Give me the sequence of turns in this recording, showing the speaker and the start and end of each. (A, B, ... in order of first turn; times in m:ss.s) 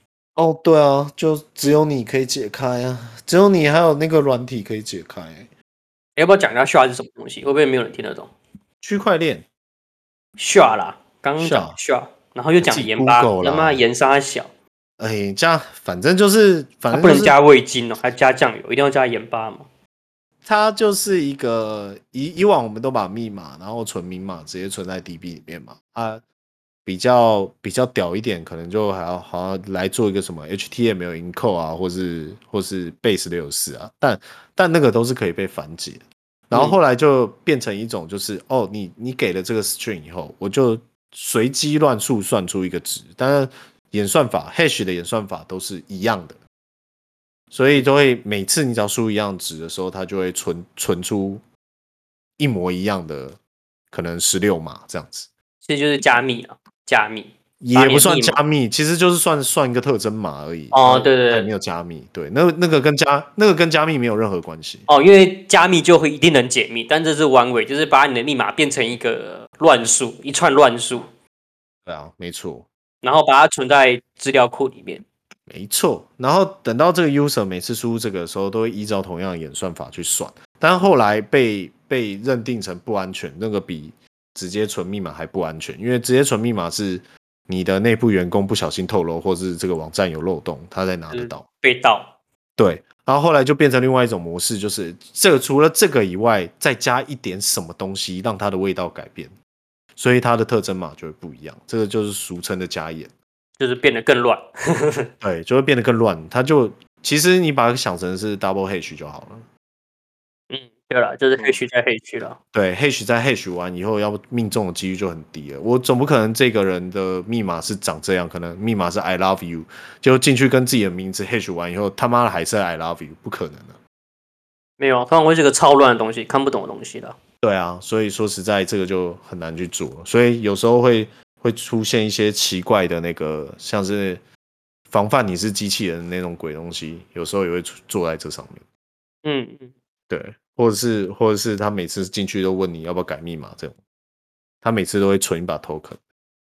0:00.4-0:05.5 A
0:06.2-0:08.3 B
0:08.8-0:09.5 A
0:10.4-0:14.5 B
0:11.4-0:11.8 A
0:12.6-0:13.8 A
0:15.0-0:17.4 A
0:16.9-0:19.7 B
0:20.4-0:26.2 A
0:26.8-0:46.4 A
0:47.5-0:51.4 A
0:52.4-0:53.4 A
0:53.9-0:55.3 A
0:55.6-0:58.4 B
0:57.6-1:04.9 A
1:00.7-1:01.5 B
1:04.9-1:11.0 B
1:11.8-1:12.7 A
1:13.0-1:15.0 B
1:15.5-1:31.4 A
1:31.1-1:32.1 B
1:32.6-1:39.3 A
1:40.0-1:43.1 A
1:43.6-1:45.1 B
1:45.2-1:49.4 A
1:50.5-1:52.4 B
1:52.5-2:03.8 A
2:04.8-2:07.2 B
2:07.4-2:14.2 A
2:14.9-2:18.6 A
2:19.2-2:19.7 B
2:20.1-2:23.8 A
2:24.6-2:26.0 A